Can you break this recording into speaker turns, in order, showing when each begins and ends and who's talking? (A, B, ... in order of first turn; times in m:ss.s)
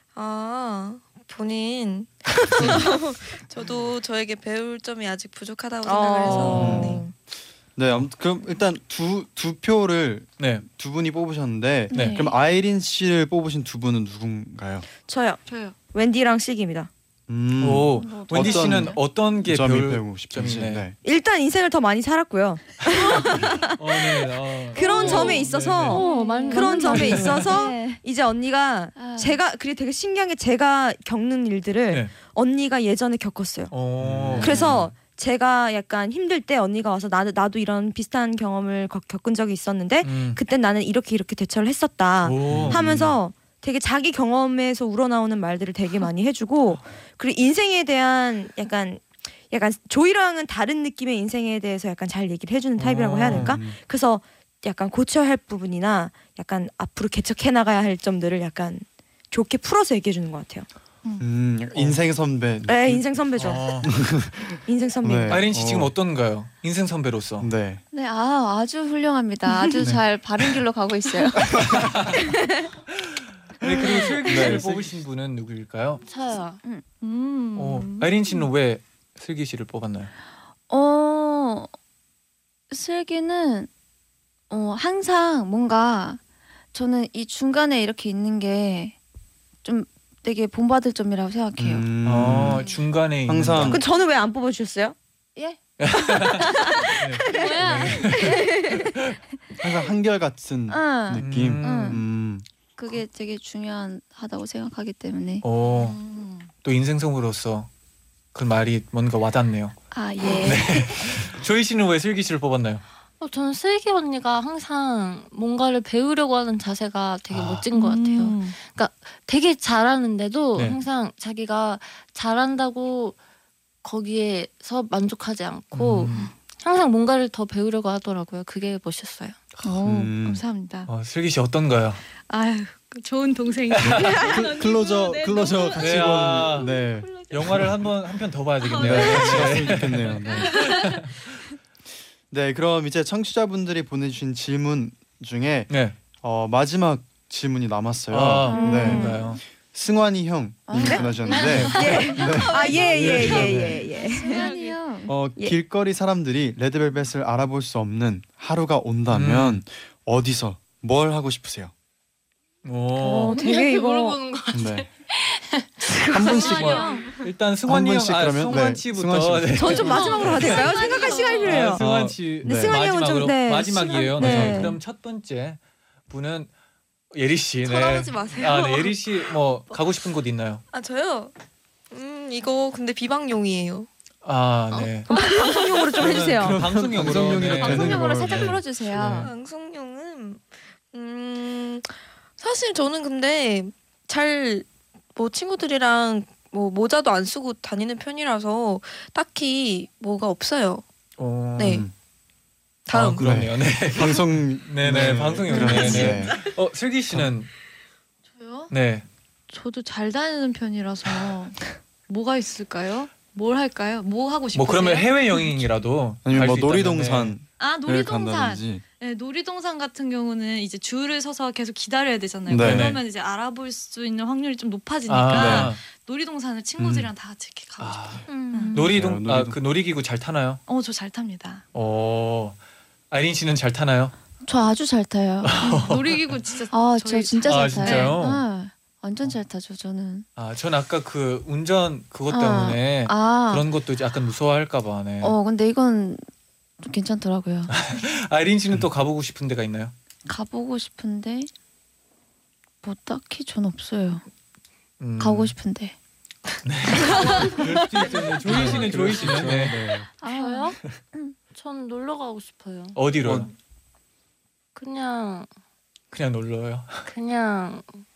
0:00.1-0:07.1 A
0:02.6-0:02.8 B
0:05.8-0:06.8 C
0:06.2-0:07.0 B
0:06.4-0:07.0 D
0:07.8-0:14.9 D
0:10.4-0:10.6 B
0:11.9-0:12.4 E
0:11.9-0:12.3 B
0:15.1-0:16.9 C
0:15.5-0:15.8 F
0:17.3-0:21.0 D
0:17.6-0:20.9 B
0:18.0-0:19.0 E
0:21.0-0:24.0 C
0:22.9-0:26.1 B
0:24.7-0:33.7 C
0:24.8-0:28.0 E
0:24.8-0:27.7 G
0:27.1-0:27.4 B
0:29.0-0:29.4 E
0:33.7-0:34.8 B
0:34.0-0:34.9 D
0:34.4-1:00.7 C
0:40.0-0:40.4 B
0:42.2-0:43.1 B
0:42.4-0:43.2 D
0:52.8-0:53.6 B
0:53.2-0:53.8 D
1:01.2-1:05.9 D
1:02.7-1:03.8 C
1:03.4-1:04.0 B
1:04.6-1:05.4 C
1:05.3-1:07.5 B
1:07.4-1:07.8 D
1:07.9-1:12.7 E
1:09.5-1:09.8 F
1:11.5-1:11.9 D
1:11.7-1:12.2 B
1:13.0-1:16.0 B
1:13.8-1:14.6 E
1:14.2-1:14.9 D
1:16.0-1:16.6 G
1:17.0-1:18.5 F
1:17.6-1:20.1 B
1:20.7-1:21.7 E
1:22.7-1:23.7 E
1:24.5-1:26.2 E
1:26.7-1:29.0 E
1:29.6-1:31.9 E
1:31.6-1:32.7 D
1:32.0-1:33.8 B
1:33.2-1:33.8 D
1:33.6-1:35.0 C
1:35.8-1:38.5 B
1:36.4-1:37.2 C
1:37.2-1:38.4 G
1:37.3-1:39.0 E
1:38.1-1:38.7 C
1:39.6-1:42.5 D
1:40.7-1:42.0 E
1:41.1-1:42.0 B
1:42.8-1:45.4 E
1:45.4-1:46.0 B
1:45.6-1:46.5 F
1:46.6-1:47.7 B
1:48.3-1:49.8 B
1:49.9-1:51.1 E
1:50.4-1:52.8 B
1:53.2-2:03.2 G
1:57.3-1:57.7 B
1:57.7-1:58.6 F
2:03.8-2:09.4 G
2:05.7-2:06.2 B
2:09.6-2:10.2 E
2:09.6-2:10.9 F
2:09.8-2:10.4 D
2:10.9-2:12.0 B
2:12.3-2:17.3 F
2:13.7-2:14.3 B
2:13.8-2:17.8 D
2:15.8-2:16.7 B
2:17.3-2:21.2 B
2:18.6-2:19.7 F
2:18.8-2:20.5 D
2:20.3-2:20.9 F
2:22.3-2:33.8 D
2:25.7-2:26.0 B
2:28.1-2:29.4 B
2:28.5-2:29.4 E
2:28.5-2:29.3 C
2:30.7-2:35.2 E
2:31.2-2:33.2 G
2:31.4-2:32.0 B
2:31.7-2:34.5 C
2:33.0-2:33.6 B
2:34.0-2:34.8 G
2:34.3-2:34.7 F
2:35.1-2:41.7 D
2:39.1-2:39.6 B
2:42.6-2:43.4 B
2:43.0-2:44.2 C
2:43.0-2:47.3 G
2:44.5-2:44.9 D
2:45.8-2:46.1 C
2:46.1-2:46.8 D
2:46.3-2:47.1 F
2:46.4-2:50.7 B
2:47.6-2:50.5 D
2:49.6-2:51.8 C
2:49.7-2:51.6 G
2:51.5-2:56.5 B
2:51.5-2:52.8 D
2:52.4-2:54.8 C
2:53.7-2:54.4 G
2:54.2-2:54.7 D
2:57.1-3:00.6 B
2:57.6-2:59.0 A
3:00.7-3:01.3 A
3:01.9-3:03.9 A
3:04.2-3:05.1 B
3:05.1-3:06.6 C
3:05.1-3:05.7 A
3:06.0-3:09.3 B
3:06.4-3:08.6 D
3:07.6-3:09.3 E
3:09.1-3:20.8 A
3:21.2-3:21.9 B
3:21.6-3:21.8 A
3:21.6-3:21.9 D
3:22.9-3:23.2 A
3:22.9-3:27.5 B
3:23.0-3:26.4 D
3:25.5-3:26.2 E
3:28.3-3:28.7 F
3:28.7-3:29.1 B
3:29.5-3:35.8 F
3:34.5-3:37.4 B
3:36.2-3:38.8 D
3:37.6-3:48.9 F
3:42.5-3:43.0 D
3:42.5-3:43.0 B
3:45.1-3:45.8 B
3:45.3-3:45.7 D
3:46.8-3:47.1 D
3:47.8-3:50.6 B
3:48.3-3:49.0 E
3:48.9-3:49.6 D
3:50.7-3:51.6 F
3:51.7-3:52.6 B
3:53.1-3:54.2 B
3:54.4-3:55.6 E
3:55.4-3:56.4 B
3:55.6-3:58.2 F
3:56.7-4:00.3 E
3:57.5-3:58.4 B
4:00.4-4:05.4 B
4:02.3-4:03.6 E
4:05.2-4:06.2 E
4:06.8-4:07.7 E
4:07.7-4:09.9 B
4:10.3-4:11.5 E
4:12.8-4:14.2 E
4:15.0-4:15.6 B
4:15.2-4:16.0 E
4:16.6-4:19.8 B
4:17.0-4:17.5 E
4:18.1-4:20.1 D
4:20.2-4:21.4 E
4:20.3-4:20.8 G
4:21.5-4:23.5 G
4:23.0-4:23.5 B
4:23.2-4:23.5 D
4:24.8-4:25.5 G
4:26.1-4:27.1 B
4:27.1-4:28.0 G